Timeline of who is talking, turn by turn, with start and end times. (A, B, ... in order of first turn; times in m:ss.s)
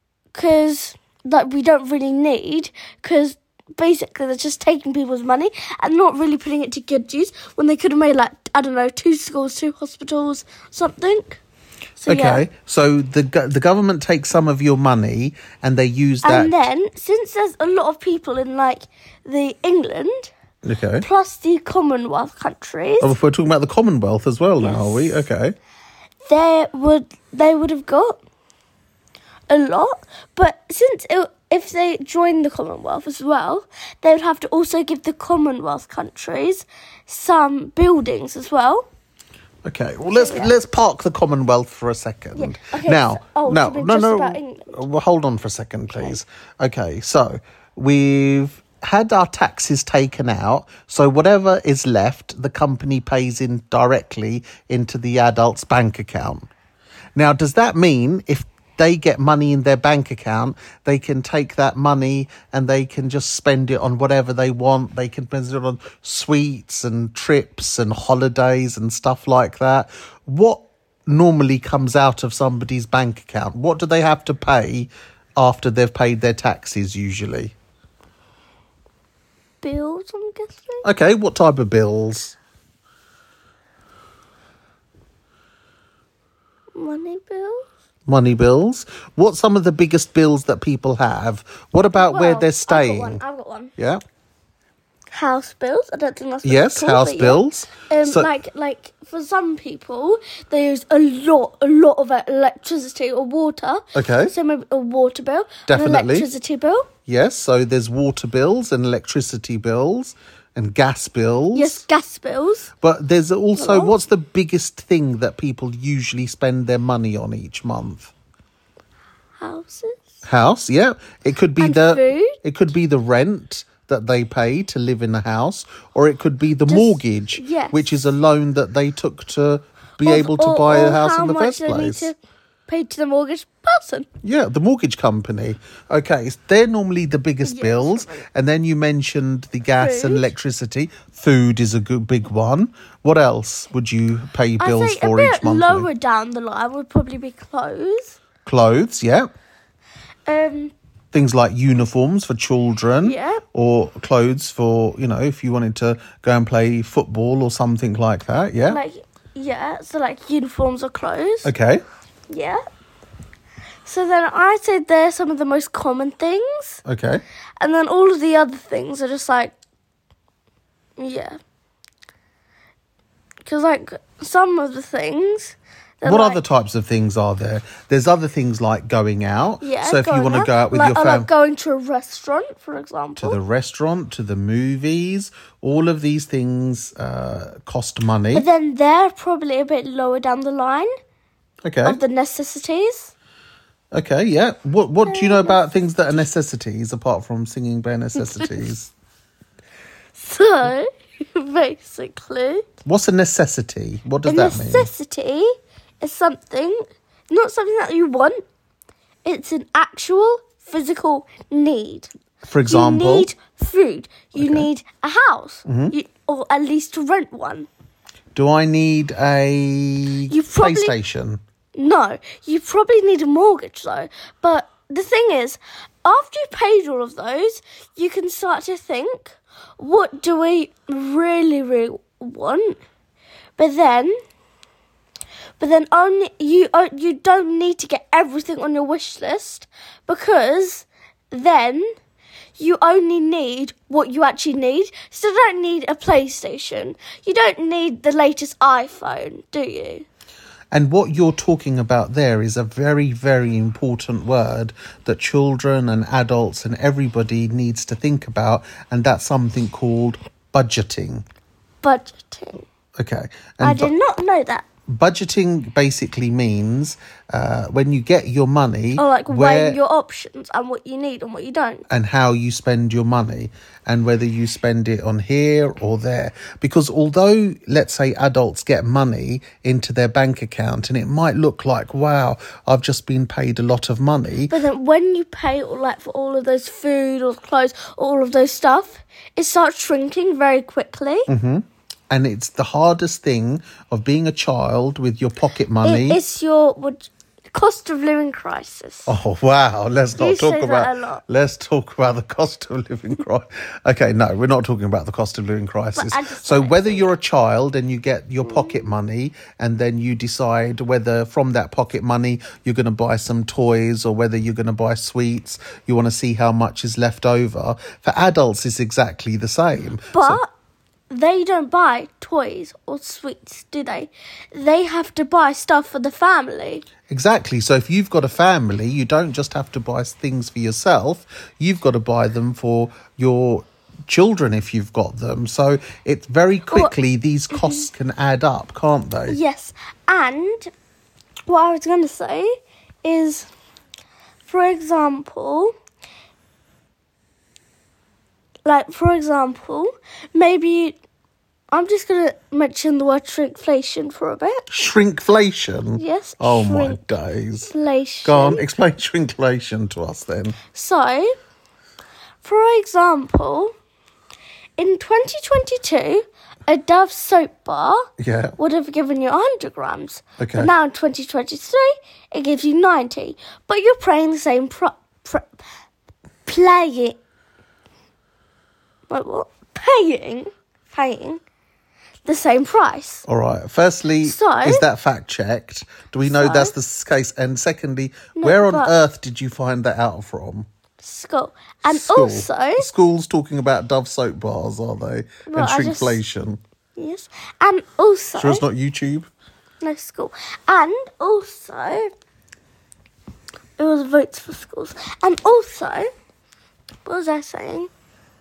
0:00.3-0:11.4 A
0:12.0-0:12.4 A
0:12.1-0:16.6 B
0:16.2-0:20.3 A
0:20.6-0:21.0 B
0:21.0-0:23.1 A
0:23.0-0:25.5 B
0:24.6-0:25.3 A
0:26.2-0:28.2 A
0:29.5-0:38.9 A
0:39.6-0:56.5 B
0:40.1-0:40.5 A
0:42.3-0:44.8 A
0:57.2-1:17.5 B
1:19.6-1:20.8 A
1:20.8-1:22.4 B
1:26.7-1:27.6 A
1:28.1-1:33.2 B
1:32.0-1:33.7 A
1:33.8-1:34.0 B
1:35.1-1:46.9 A
1:36.4-1:38.3 B
1:43.9-1:44.3 B
1:45.7-1:46.3 B
1:47.0-1:51.8 B
1:51.5-1:52.7 A
1:52.8-1:58.1 B
1:53.6-1:54.0 A
1:59.4-2:00.0 A
2:00.2-2:12.1 B
2:01.6-2:02.4 A
2:06.7-2:07.8 A
2:10.0-2:12.2 A
2:12.7-2:14.1 A
2:14.2-2:25.9 B
2:17.4-2:18.2 A
2:19.8-2:20.3 A
2:24.6-2:28.2 A
2:28.4-2:29.3 B
2:30.3-2:30.7 A
2:31.1-2:38.8 B
2:33.0-2:33.4 A
2:38.7-2:41.5 A
2:41.4-2:41.8 B
2:42.3-2:42.6 A
2:43.8-2:46.8 A
2:46.8-2:47.2 B
2:47.6-2:49.5 A
2:51.0-2:51.4 A
2:53.4-2:56.4 A
2:56.0-3:01.3 B
2:59.6-3:03.4 A
3:03.2-3:08.4 B
3:08.3-3:10.9 A
3:11.6-3:12.0 B
3:11.8-3:13.1 A
3:13.9-3:18.9 B
3:15.0-3:15.6 A
3:18.2-3:18.7 A
3:20.1-3:22.6 A
3:22.8-3:24.9 B
3:24.2-3:25.5 A
3:26.0-3:28.4 A
3:29.2-3:32.1 A
3:32.4-3:33.3 B
3:32.6-3:37.7 A
3:34.4-3:34.7 B
3:35.6-3:36.0 B
3:38.3-3:41.4 B
3:40.3-3:40.9 A
3:41.8-3:52.8 A
3:53.6-3:54.1 A
3:55.6-4:01.9 A
4:02.6-4:10.0 A
4:10.7-4:21.2 B
4:21.8-4:22.6 A
4:23.0-4:23.9 B
4:23.6-4:24.6 A
4:24.9-4:29.8 B
4:29.0-4:31.8 A
4:31.9-4:44.6 B
4:44.5-4:51.3 A
4:51.3-4:56.2 B
4:55.8-4:59.1 A
4:59.1-5:20.4 B
5:00.2-5:01.2 A
5:06.0-5:07.2 A
5:08.4-5:08.7 A
5:20.1-5:20.5 A
5:21.1-5:26.8 A
5:27.1-5:39.4 B
5:37.5-5:37.9 A
5:39.3-5:40.7 A
5:41.5-5:42.5 A
5:43.0-5:43.5 A
5:44.4-5:45.7 A
5:48.6-5:51.0 A
5:51.7-5:54.7 A
5:54.7-5:57.7 B
5:56.0-5:57.0 A
5:57.7-5:58.6 A
5:58.2-6:00.6 B
6:00.7-6:01.3 A
6:02.4-6:03.7 A
6:04.8-6:08.0 A
6:08.2-6:08.5 B
6:08.6-6:15.5 A
6:10.4-6:10.7 B
6:16.4-6:17.2 A
6:19.1-6:21.4 A
6:22.2-6:23.2 A
6:23.2-6:30.7 B
6:24.2-6:24.8 A
6:26.2-6:26.7 A
6:28.4-6:28.9 A
6:31.0-6:32.9 A
6:31.8-6:36.6 B
6:35.5-6:36.2 A
6:37.0-6:38.6 A
6:38.4-6:39.3 B
6:39.8-6:42.1 A
6:43.8-6:46.1 A
6:47.0-6:47.9 A